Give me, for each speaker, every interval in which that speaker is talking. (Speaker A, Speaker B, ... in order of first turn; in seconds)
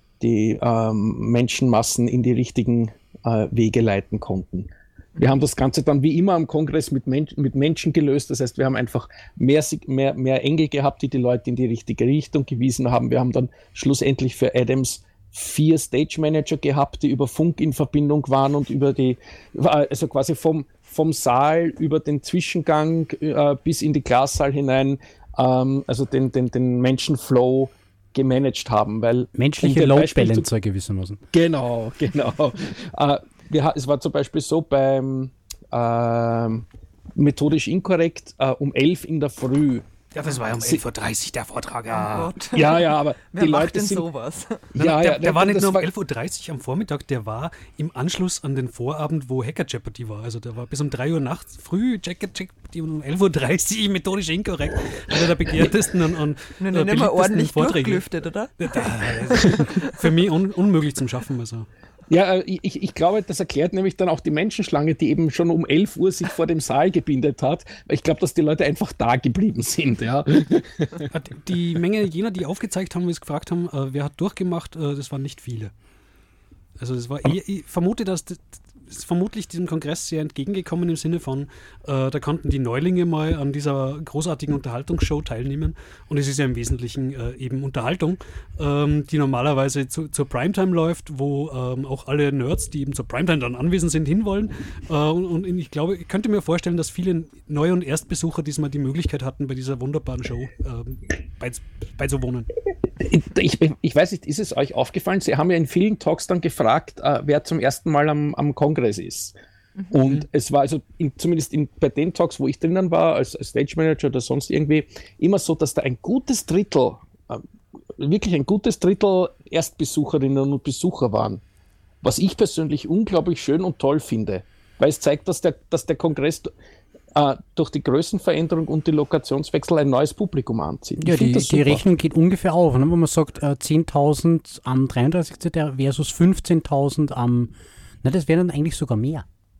Speaker A: 0.2-30.5, 31.3-39.9, 40.5-40.8, 42.5-44.1, 44.8-45.9, 62.1-71.1, 103.0-109.3, 109.9-117.4, 118.0-121.4, 122.0-126.5, 127.2-131.8
Speaker B: 29.4-31.2, 131.0-139.2
Speaker C: 40.1-42.3, 44.8-58.1, 58.6-61.7, 71.1-75.7, 76.8-102.5, 110.0-110.3
Speaker D: 41.9-44.7, 56.6-60.0